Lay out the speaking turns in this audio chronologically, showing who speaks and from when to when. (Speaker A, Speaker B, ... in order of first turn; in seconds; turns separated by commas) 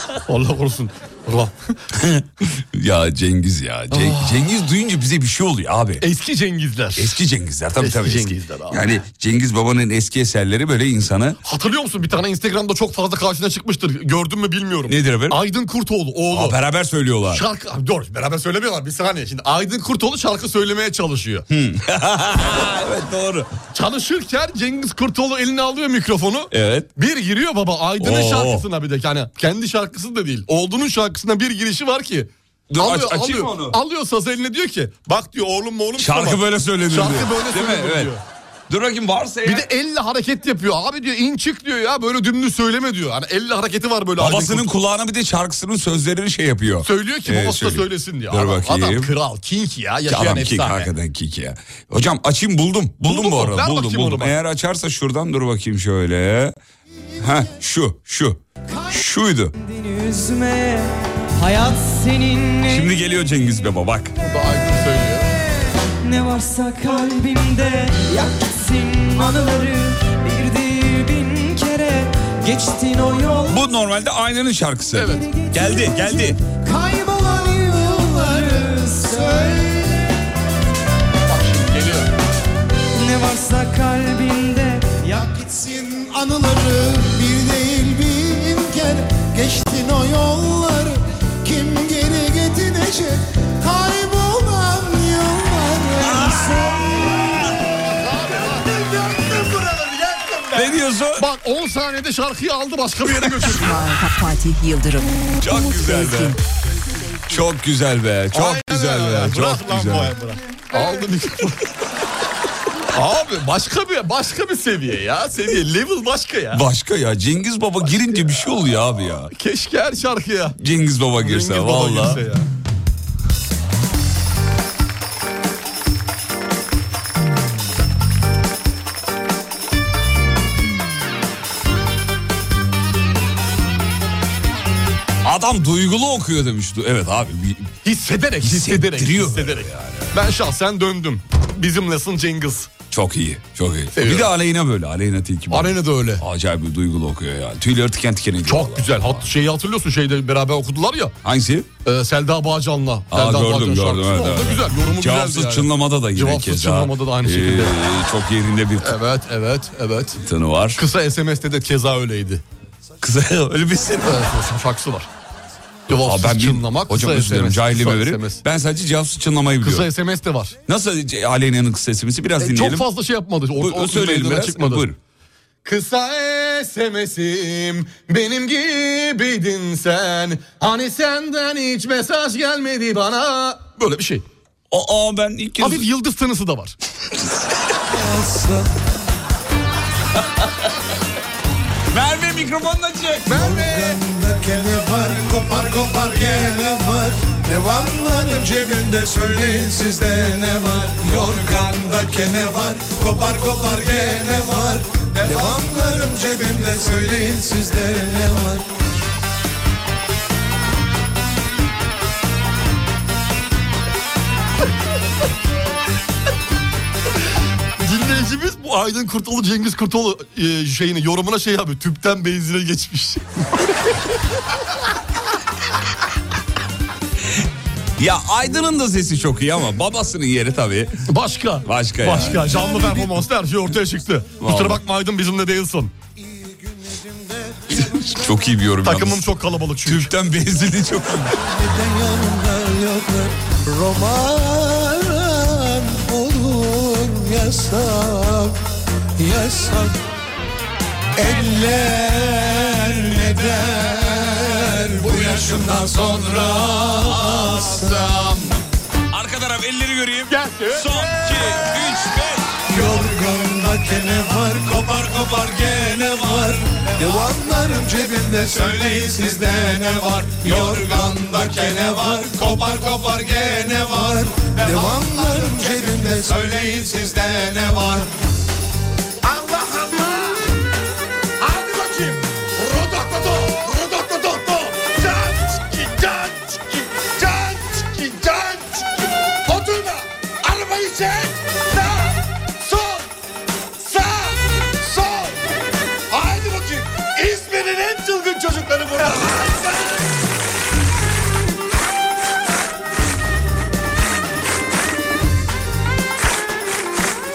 Speaker A: 0.3-1.8, Speaker B: 1.9-6.0, Speaker A: 3.9-4.5, Speaker A: 6.0-7.2, Speaker B: 7.0-11.4, Speaker A: 7.8-8.8, Speaker A: 11.4-16.6, Speaker B: 14.9-15.4, Speaker B: 16.3-17.4, Speaker A: 17.3-21.4, Speaker B: 21.5-23.5, Speaker A: 23.7-38.2, Speaker B: 26.5-26.9, Speaker B: 28.0-28.7, Speaker B: 32.7-33.8, Speaker B: 36.0-38.1, Speaker B: 38.7-39.7, Speaker A: 39.5-44.7, Speaker B: 44.2-49.1, Speaker A: 46.9-50.9, Speaker B: 50.1-56.5, Speaker A: 53.0-54.4, Speaker B: 57.2-59.5, Speaker C: 59.5-62.9, Speaker B: 62.7-64.1, Speaker A: 64.2-65.3, Speaker C: 66.0-73.6, Speaker B: 73.5-76.4, Speaker A: 75.0-75.3, Speaker C: 75.2-77.0, Speaker C: 78.2-79.6, Speaker A: 81.3-82.1, Speaker C: 82.9-85.3, Speaker D: 85.4-87.2, Speaker D: 89.2-89.7, Speaker D: 95.5-96.6, Speaker B: 96.0-96.6, Speaker A: 98.1-98.5, Speaker D: 98.6-100.7, Speaker B: 100.5-101.3, Speaker A: 101.2-103.8, Speaker E: 103.5-106.3, Speaker B: 105.4-106.4, Speaker B: 107.3-110.1, Speaker A: 108.3-111.7, Speaker A: 112.9-116.6, Speaker B: 116.5-119.3, Speaker A: 119.3-120.5, Speaker B: 120.6-122.3, Speaker A: 121.2-122.5, Speaker B: 135.2-137.7, Speaker A: 137.8-142.7, Speaker B: 138.4-140.2, Speaker B: 142.9-149.3, Speaker A: 144.0-144.3, Speaker A: 145.5-146.2, Speaker A: 148.5-151.2, Speaker B: 151.2-151.7, Speaker A: 151.8-157.8, Speaker B: 153.1-159.0, Speaker A: 158.8-160.2, Speaker B: 160.2-160.8, Speaker A: 160.8-162.4, Speaker B: 163.0-164.2, Speaker A: 164.0-165.1, Speaker A: 165.9-168.4, Speaker B: 166.0-169.9, Speaker A: 169.6-170.6, Speaker B: 170.7-172.9, Speaker A: 172.4-174.9, Speaker B: 173.5-175.0, Speaker A: 175.7-184.2, Speaker B: 184.7-185.8, Speaker A: 185.6-186.8, Speaker D: 187.9-188.6, Speaker B: 191.9-193.4, Speaker A: 193.3-194.0, Speaker D: 193.3-208.6, Speaker A: 217.8-223.2, Speaker B: 228.0-231.1, Speaker A: 231.1-235.9, Speaker B: 231.6-233.0, Speaker B: 234.4-234.8, Speaker B: 237.7-239.3, Speaker A: 238.8-240.1, Speaker B: 239.8-241.4, Speaker D: 241.4-248.6, Speaker D: 249.2-249.9, Speaker D: 251.2-258.4, Speaker B: 256.9-257.8, Speaker B: 259.1-262.6, Speaker A: 260.3-260.8, Speaker D: 262.6-278.1, Speaker D: 279.3-280.3, Speaker D: 281.4-292.1, Speaker D: 292.6-293.0, Speaker D: 293.8-295.3, Speaker D: 296.1-300.0